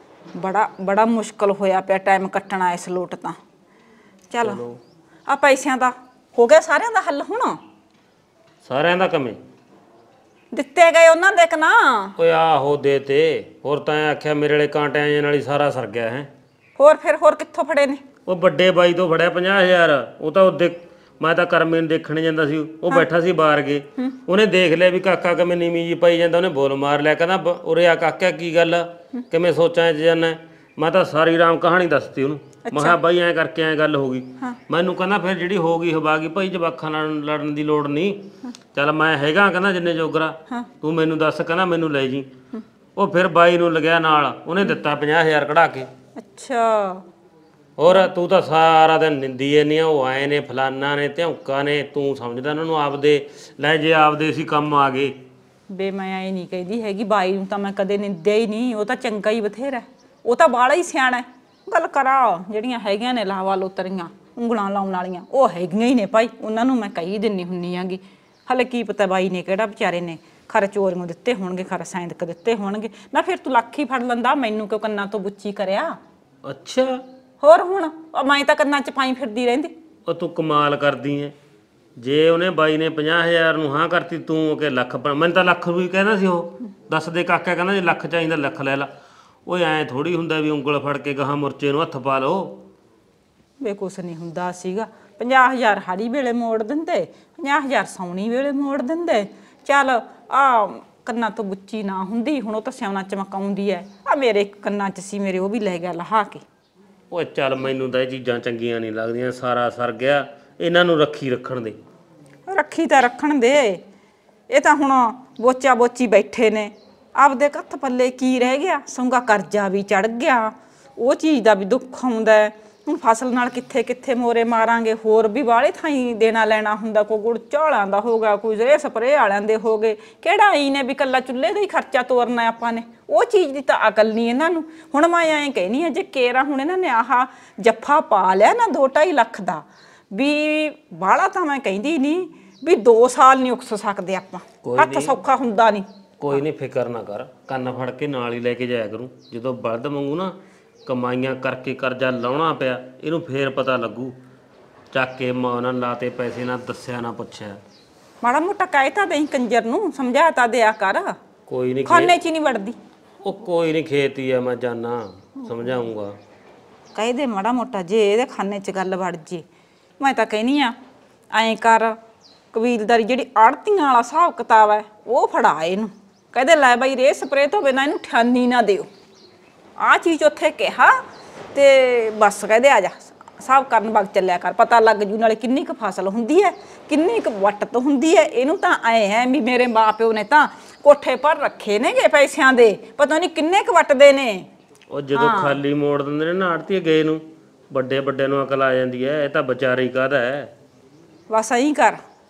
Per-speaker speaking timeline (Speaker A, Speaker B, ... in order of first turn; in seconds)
Speaker A: 0.3-3.4, 4.3-4.7, 5.3-7.6, 10.5-12.1, 16.8-18.0, 32.6-33.0, 46.2-47.0, 55.7-76.0, 77.4-79.7, 93.6-106.4, 112.5-113.8, 114.5-146.4, 158.2-161.2, 161.8-162.8, 165.5-165.7, 166.9-169.4, 170.0-170.8, 171.3-171.9, 172.5-178.9, 179.8-181.0, 181.5-194.5, 195.1-195.6, 201.3-202.0
Speaker B: 8.6-9.4, 12.2-16.3, 18.2-42.3, 43.0-45.9, 47.8-55.1, 76.4-77.0, 80.0-81.3, 82.0-88.9, 89.5-92.6, 107.1-111.8, 144.6-145.2, 146.2-150.3, 150.8-154.1, 154.9-157.6, 161.5-162.1, 163.2-166.1, 194.9-197.2, 197.7-200.5